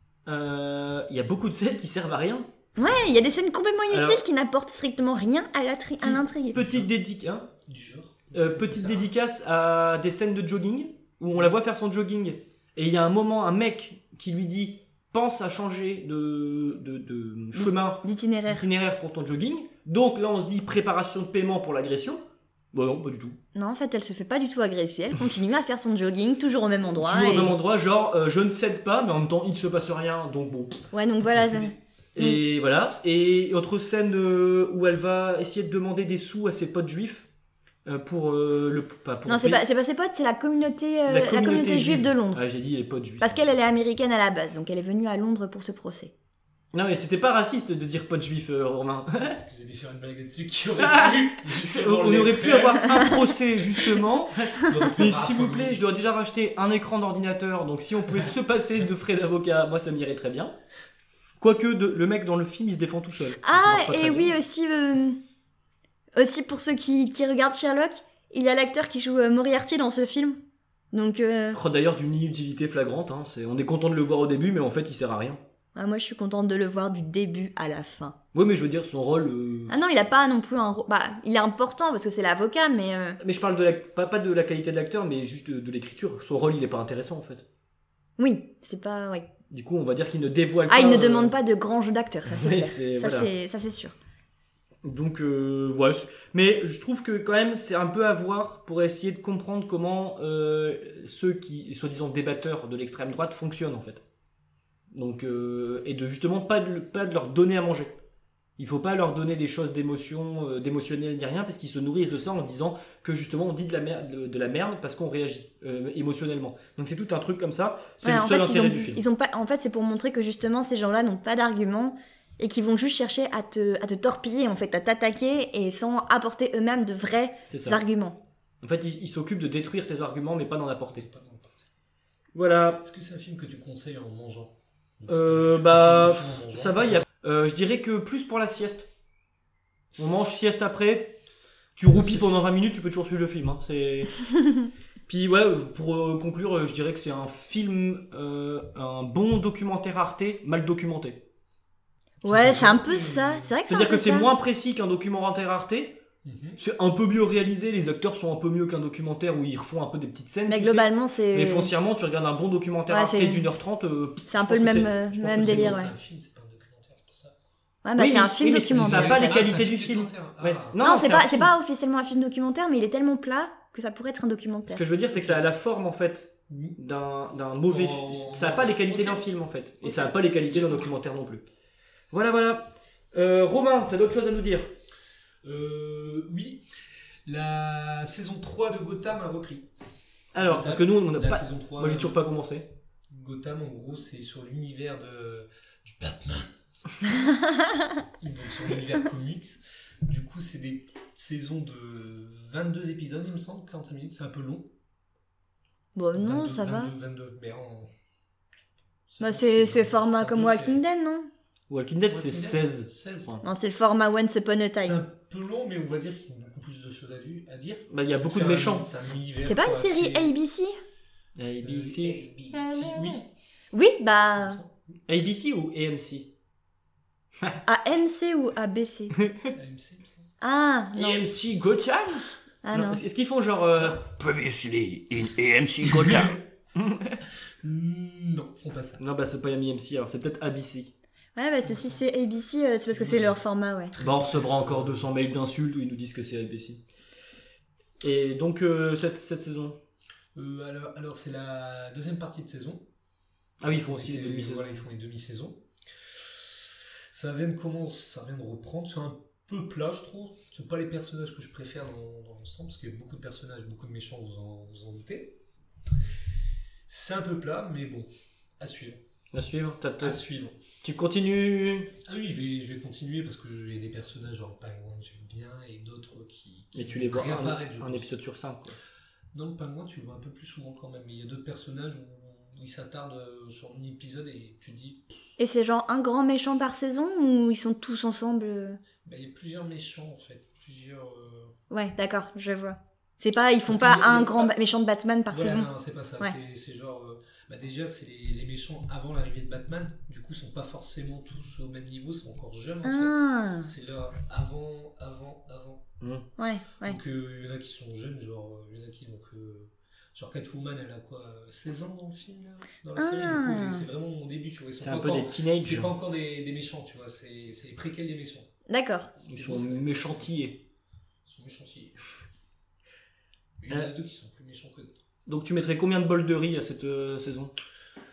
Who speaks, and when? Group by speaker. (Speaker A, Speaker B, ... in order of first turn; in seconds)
Speaker A: 0.2-2.5, 3.9-4.2, 6.0-7.5, 8.3-23.4, 27.0-30.8, 31.4-37.3, 37.8-39.6, 41.1-43.5, 46.7-49.4, 50.8-60.5, 61.4-64.3, 71.5-75.4, 78.3-79.7, 83.2-87.4, 89.5-91.4, 92.2-93.3, 94.8-104.0, 104.9-108.0, 108.6-119.0, 127.5-127.8, 128.6-131.1, 132.3-132.8, 135.1-138.9, 140.0-141.2, 141.8-144.1, 145.1-151.2, 153.7-156.0, 156.6-165.8, 168.0-171.5, 174.7-181.4, 182.1-184.7, 190.3-192.7, 211.7-213.4, 217.9-218.9, 221.4-223.2, 225.1-226.3, 229.2-229.5, 230.9-237.2, 239.0-240.9, 244.0-246.8, 248.0-249.8, 253.6-254.8, 269.3-270.2, 270.8-271.9, 276.7-278.8, 306.0-306.2, 314.8-315.9, 319.2-320.6, 325.3-327.5
Speaker B: 2.8-6.6, 17.5-18.6, 23.5-27.5, 30.9-32.4, 39.3-42.4, 43.2-46.1, 63.4-65.2, 66.2-70.4, 70.9-71.6, 75.7-78.2, 79.7-83.2, 88.2-89.2, 90.7-93.9, 118.0-128.2, 144.3-144.7, 152.2-154.3, 160.5-161.7, 162.9-163.4, 164.3-165.9, 167.8-169.3, 170.8-174.8, 205.9-206.9, 209.2-211.3, 213.4-215.0, 219.4-220.8, 223.7-224.6, 227.6-229.1, 230.4-231.2, 232.6-233.0, 241.3-243.9, 285.4-288.8, 291.7-295.7, 302.8-303.7, 306.4-307.0, 312.9-313.9, 318.7-319.1
Speaker C: 6.5-6.9, 7.7-9.1, 49.2-55.8, 130.9-131.7, 132.8-137.1, 141.9-142.3, 152.2-153.5, 156.2-156.6, 165.2-167.3, 168.7-170.9, 175.1-175.4, 176.5-176.8, 177.6-179.3, 179.8-180.9, 185.4-186.6, 187.3-189.7, 190.3-192.2, 193.1-196.5, 198.2-204.7, 206.1-207.9, 209.1-210.8, 212.1-213.4, 214.8-220.3, 221.6-223.3, 224.4-225.0, 229.5-230.3, 235.8-236.4, 237.6-239.0, 241.6-242.0, 242.8-245.1, 250.3-252.8, 253.6-256.5, 257.1-265.4, 266.9-269.0, 270.0-270.6, 272.0-278.1, 279.3-285.1, 289.0-291.5, 293.7-294.5, 295.3-305.8, 306.8-318.5, 319.2-320.3, 321.2-322.0, 323.6-325.0